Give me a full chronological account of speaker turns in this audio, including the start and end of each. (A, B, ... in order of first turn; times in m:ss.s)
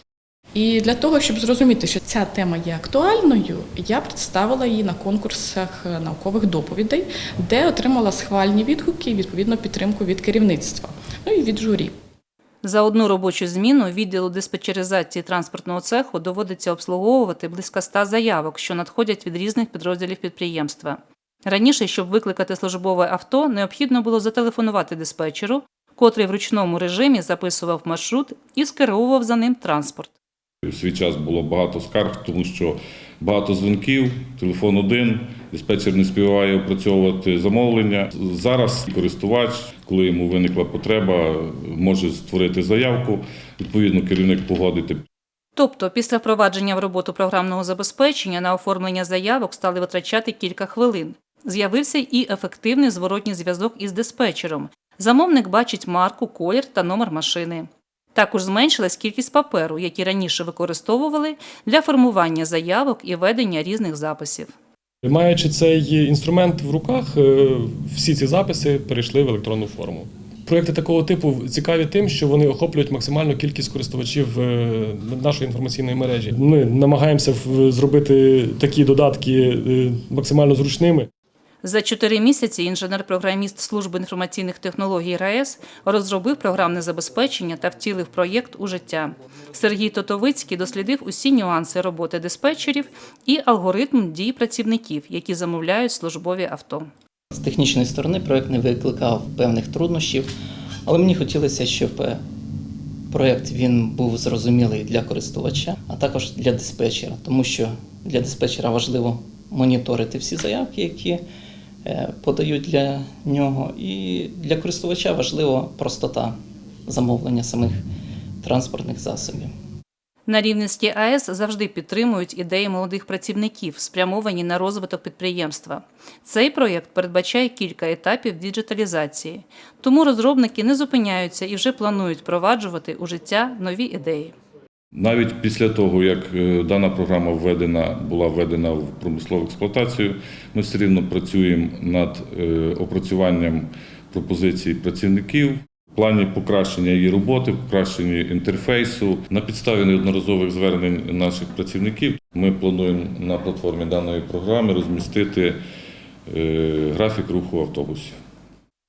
0:00.6-0:11.9 A
0:12.6-0:30.1 B
0:30.6-0:45.1 C
0:45.6-1:04.5 B
1:05.0-1:21.1 D
1:21.6-1:36.9 B
1:37.3-1:40.3 E
1:40.9-1:42.2 E
1:43.1-1:51.2 E
1:51.8-1:57.8 E
1:58.4-1:59.5 E
2:00.3-2:14.3 B
2:14.9-2:35.6 C
2:36.3-2:38.2 C